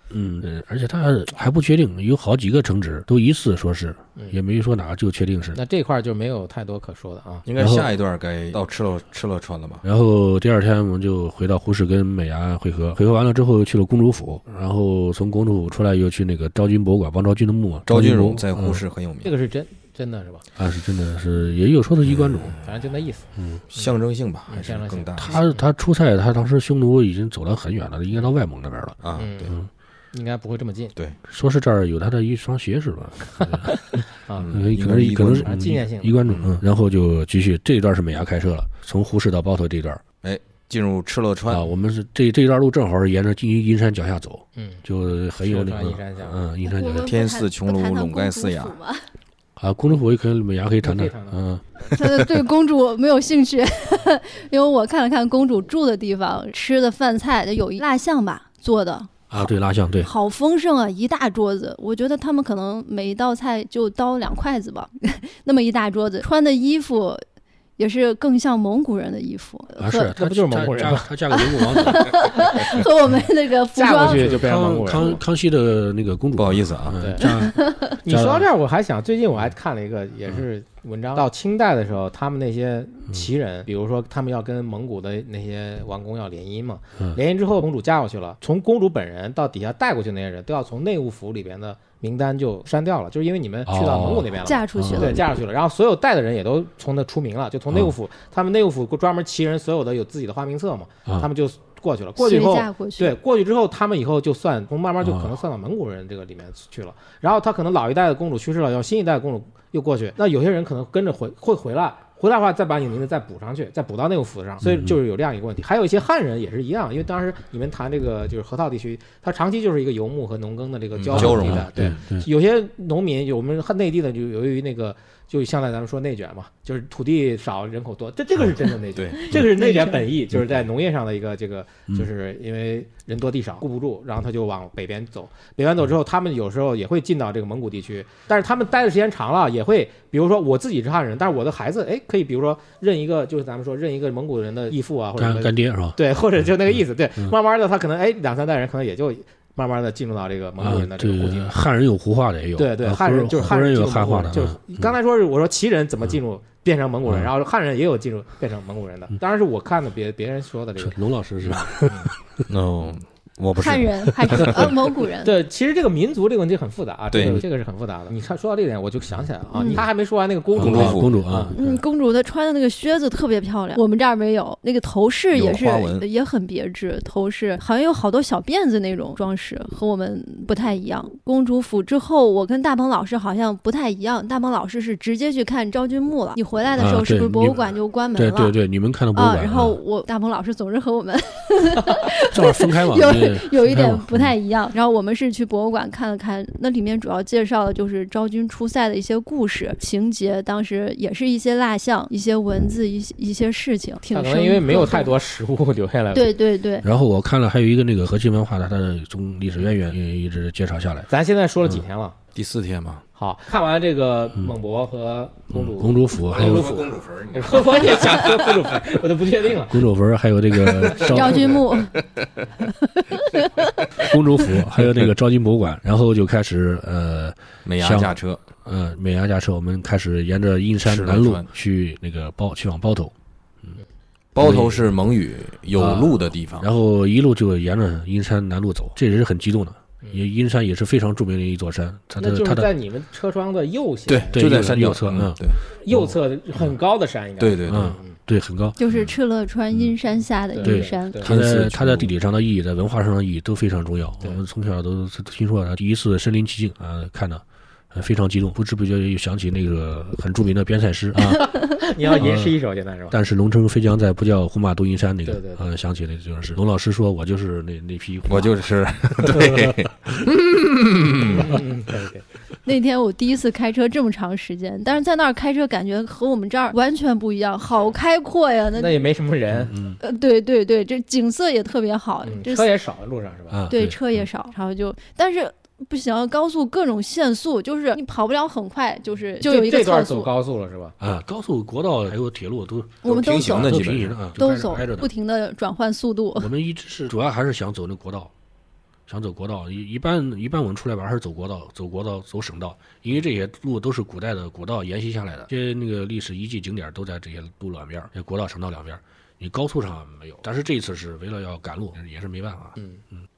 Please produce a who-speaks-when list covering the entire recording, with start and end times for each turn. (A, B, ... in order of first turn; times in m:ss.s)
0:00.1-0:05.6 A
0:05.6-0:07.4 B
0:07.4-0:09.8 C
0:07.6-0:07.9 A
0:09.8-0:18.8 A
0:17.9-0:19.3 C
0:19.2-0:20.4 B
0:20.6-0:22.6 A
0:22.1-0:22.6 C
0:22.6-0:23.9 B
0:23.4-0:23.6 A
0:23.7-0:25.4 C
0:24.5-0:25.6 B
0:25.2-0:29.7 A
0:29.0-0:29.6 C
0:29.2-0:29.6 B
0:30.1-0:31.0 B
0:31.3-0:34.0 A
0:34.3-0:34.5 B
0:34.3-0:35.6 C
0:34.5-0:40.0 A
0:35.4-0:36.2 B
0:36.3-0:36.6 C
0:40.2-0:41.7 C
0:41.5-0:47.1 A
0:44.6-0:44.8 B
0:45.4-0:46.4 B
0:46.6-0:49.1 D
0:47.0-0:48.8 C
0:49.6-0:51.6 A
0:50.8-0:51.4 B
0:51.9-1:07.2 D
0:52.0-0:52.3 C
0:59.3-1:00.1 A
1:07.8-1:10.1 D
1:09.8-1:12.4 A
1:10.2-1:11.1 B
1:11.3-1:14.4 D
1:13.7-1:15.2 B
1:14.0-1:18.5 A
1:16.4-1:17.0 C
1:17.0-2:31.6 B
1:17.3-1:17.9 D
1:33.7-1:35.2 A
1:34.4-1:35.2 D
1:42.2-1:43.2 D
1:45.0-1:45.3 A
1:54.6-1:55.0 A
2:01.0-2:02.0 C
2:01.1-2:02.3 A
2:09.0-2:09.4 C
2:09.5-2:10.0 D
2:25.2-2:26.0 A
2:30.6-2:34.9 A
2:32.6-2:42.1 B
2:40.8-2:42.4 A
2:42.5-2:44.8 C
2:43.6-2:45.3 D
2:45.2-2:51.6 B
2:47.1-2:47.4 C
2:49.6-2:49.8 D
2:50.6-2:51.2 C
2:50.6-2:51.8 A
2:51.5-3:08.6 D
2:55.3-2:56.1 C
3:06.8-3:09.8 A
3:09.1-3:25.2 D
3:12.2-3:14.3 A
3:24.1-3:26.4 B
3:26.1-3:26.9 D
3:26.8-3:31.1 A
3:31.1-3:32.2 B
3:32.4-3:33.0 C
3:33.2-3:39.8 B
3:35.5-3:36.8 A
3:36.3-3:38.8 C
3:39.7-3:41.5 A
3:41.0-3:41.6 B
3:41.0-3:42.0 D
3:41.8-3:42.2 C
3:42.6-3:43.7 D
3:44.0-3:53.1 A
3:47.6-3:48.4 C
3:50.8-3:51.5 C
3:54.4-3:56.7 C
3:54.4-3:54.9 A
3:55.8-4:02.7 A
4:02.2-4:04.5 B
4:04.1-4:05.6 C
4:04.3-4:05.4 A
4:05.8-4:08.2 B
4:07.4-4:08.0 C
4:07.7-4:08.8 A
4:08.8-4:11.3 D
4:10.5-4:11.3 B
4:10.6-4:22.5 A
4:11.2-4:12.1 C
4:21.3-4:23.2 B
4:23.1-4:28.6 A
4:25.3-4:25.6 B
4:28.2-4:31.6 C
4:29.2-4:29.8 A
4:31.2-4:32.2 B
4:32.6-4:39.1 D
4:38.8-4:39.8 B
4:39.7-4:40.0 A
4:40.0-4:42.7 D
4:42.2-4:43.7 B
4:43.5-4:44.2 A
4:43.7-4:50.3 D
4:49.4-4:51.0 B
4:51.0-4:55.1 A
4:53.0-4:53.8 D
4:53.0-4:54.2 C
4:54.4-4:56.5 D
4:56.4-4:58.3 A
4:59.1-5:12.8 A